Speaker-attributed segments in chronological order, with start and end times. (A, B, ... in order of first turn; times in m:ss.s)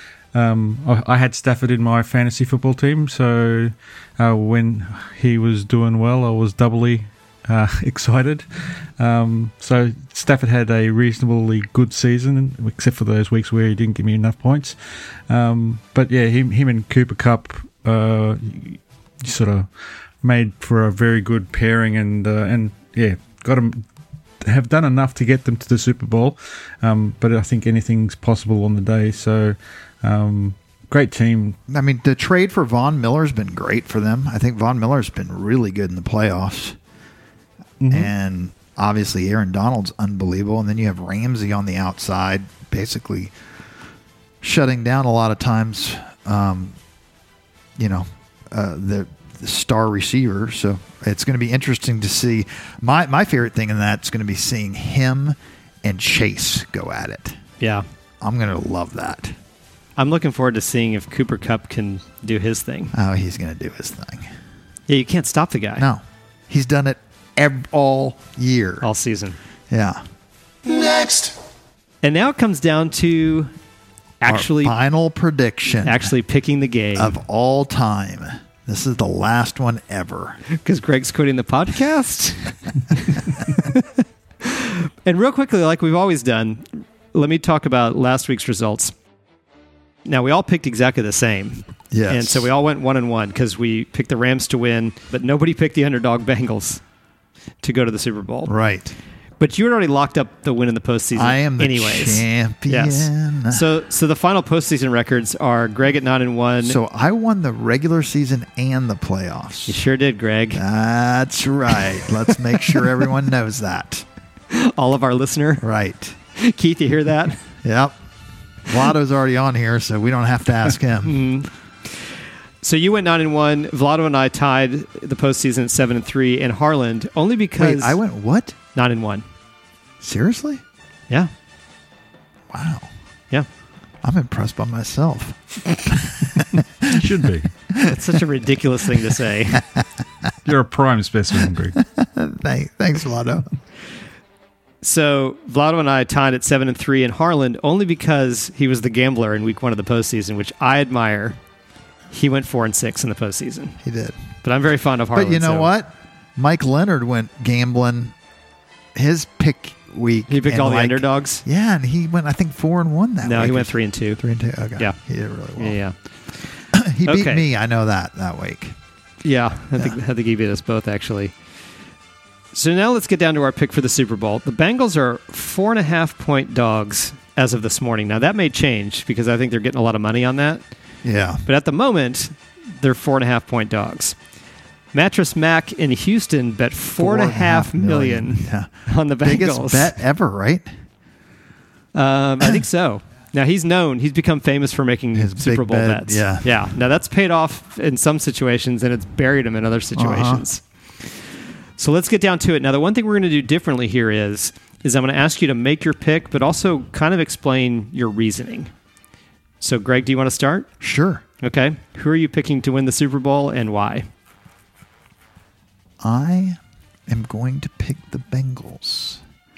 0:00.3-0:08.4 A
0:09.0-0:14.8 A
0:15.3-0:19.7 A
0:20.2-0:23.8 A
0:24.4-0:31.6 A
0:31.7-0:36.8 B
0:37.8-0:38.1 A
0:37.9-0:43.3 B
0:44.4-0:46.8 B
0:47.8-0:57.4 B
0:57.6-0:57.8 C
0:58.2-0:59.4 B
1:00.0-1:02.9 C
1:02.9-1:04.3 B
1:04.9-1:05.9 C
1:05.8-1:08.9 B
1:08.8-1:09.4 C
1:09.7-1:10.0 B
1:10.7-1:11.3 C
1:12.0-1:13.5 C
1:14.2-1:14.8 C
1:14.3-1:16.1 B
1:15.8-1:17.2 C
1:17.0-1:20.4 B
1:20.5-1:28.9 C
1:30.0-1:36.8 C
1:31.9-1:32.5 B
1:37.6-1:38.5 C
1:38.5-1:38.9 B
1:39.4-1:46.8 C
1:41.2-1:43.6 B
1:46.6-1:49.8 B
1:49.7-1:50.6 C
1:50.5-1:54.1 B
1:54.5-1:55.6 C
1:55.6-1:56.2 B
1:56.4-1:57.4 C
1:57.6-1:58.0 B
1:58.7-2:01.2 B
2:01.0-2:02.1 C
2:02.6-2:08.0 C
2:07.6-2:08.6 B
2:08.8-2:09.2 C
2:10.0-2:10.6 B
2:12.5-2:12.9 B
2:14.0-2:17.1 B
2:16.9-2:17.5 A
2:17.7-2:18.0 B
2:17.8-2:19.6 C
2:20.4-2:21.8 A
2:21.8-2:23.5 B
2:24.8-2:31.4 C
2:32.1-2:33.8 C
2:33.8-2:34.2 B
2:34.4-2:35.7 C
2:35.1-2:38.2 B
2:39.0-2:45.8 B
2:40.3-2:41.4 C
2:43.2-2:44.2 C
2:45.6-2:46.0 C
2:46.7-2:48.8 B
2:47.0-2:47.5 C
2:49.2-2:51.3 C
2:52.5-3:00.7 C
3:01.0-3:01.4 B
3:01.4-3:04.2 C
3:04.9-3:10.0 C
3:07.0-3:10.7 B
3:11.9-3:20.6 C
3:15.1-3:16.5 B
3:20.0-3:20.4 B
3:21.8-3:28.7 C
3:29.6-3:30.7 C
3:30.8-3:31.2 B
3:31.4-3:34.1 C
3:36.0-3:39.2 B